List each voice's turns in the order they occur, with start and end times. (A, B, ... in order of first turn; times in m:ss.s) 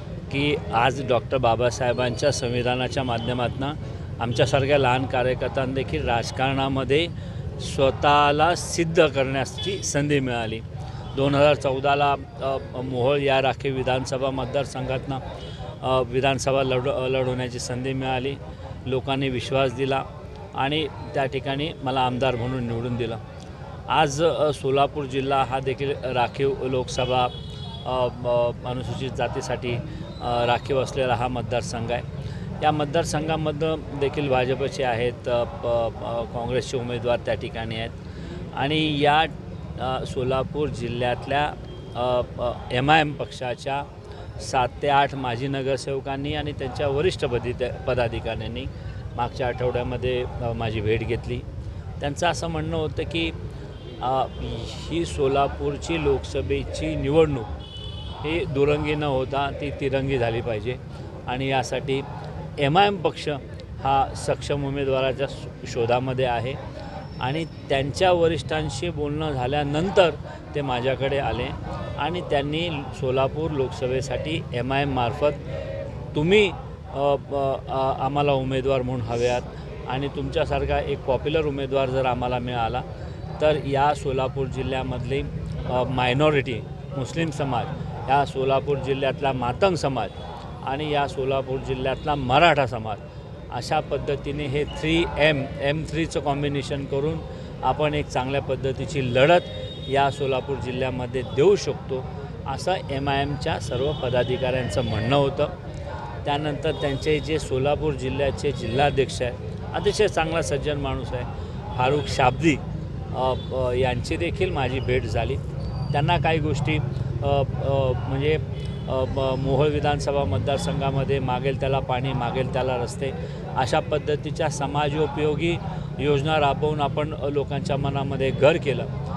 0:00.3-0:15.2 A
0:15.8-0:23.2 A
0:23.9-0:32.0 A
0:32.6-0:37.9 A
0:38.6-0:43.9 A
0:44.4-0:51.4 A
0:52.0-0:53.4 A
0:54.0-0:57.5 A
0:58.2-1:02.0 A
1:02.6-1:06.6 A
1:07.2-1:15.4 A
1:16.1-1:22.8 A
1:23.4-1:33.0 A
1:33.5-1:45.5 A
1:46.2-1:52.6 A
1:53.1-1:55.4 A
1:55.9-2:08.9 A